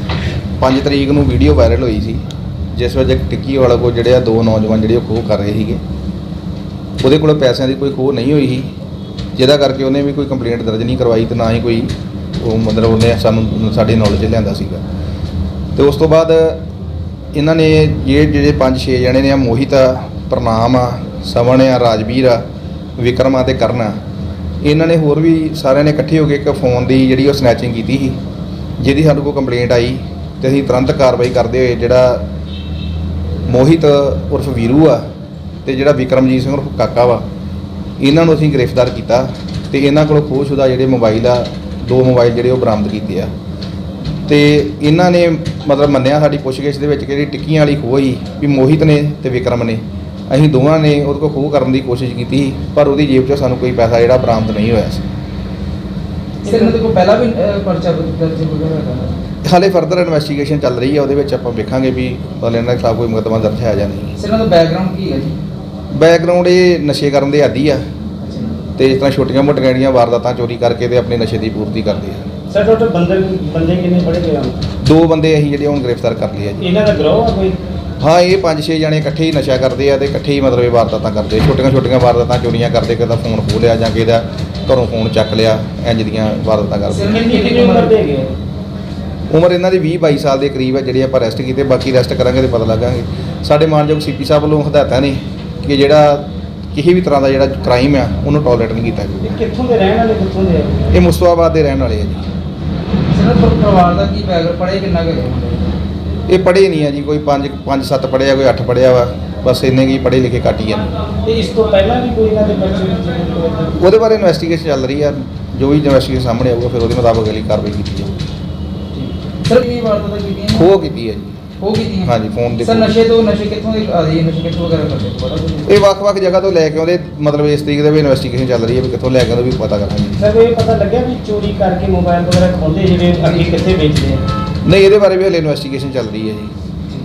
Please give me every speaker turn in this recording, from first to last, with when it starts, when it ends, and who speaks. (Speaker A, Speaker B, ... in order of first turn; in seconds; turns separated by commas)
Speaker A: 0.6-5.8, Speaker A: 7.0-8.7, Speaker A: 9.4-14.8, Speaker A: 15.8-16.6, Speaker A: 17.3-22.4, Speaker A: 23.0-24.0, Speaker A: 24.6-28.2, Speaker A: 28.8-32.3, Speaker A: 33.5-35.0, Speaker A: 35.6-37.2, Speaker A: 38.0-43.3, Speaker A: 44.3-55.1, Speaker B: 56.4-59.2, Speaker C: 56.5-56.8, Speaker A: 59.4-64.1, Speaker B: 64.2-65.4, Speaker A: 65.9-67.8, Speaker B: 68.2-68.6, Speaker A: 68.8-72.3, Speaker C: 72.5-74.6, Speaker A: 74.8-76.6, Speaker C: 76.6-77.6, Speaker A: 78.0-87.3, Speaker B: 86.9-88.0, Speaker C: 87.1-88.3, Speaker A: 89.3-99.3, Speaker C: 99.2-100.9, Speaker A: 100.9-102.3, Speaker B: 103.1-105.7, Speaker A: 106.3-110.9, Speaker C: 111.2-113.8, Speaker A: 113.8-118.2, Speaker B: 118.9-120.7, Speaker A: 120.5-121.4, Speaker B: 121.6-125.8, Speaker A: 122.0-122.9, Speaker A: 125.7-130.2, Speaker C: 130.2-134.2, Speaker A: 134.6-136.5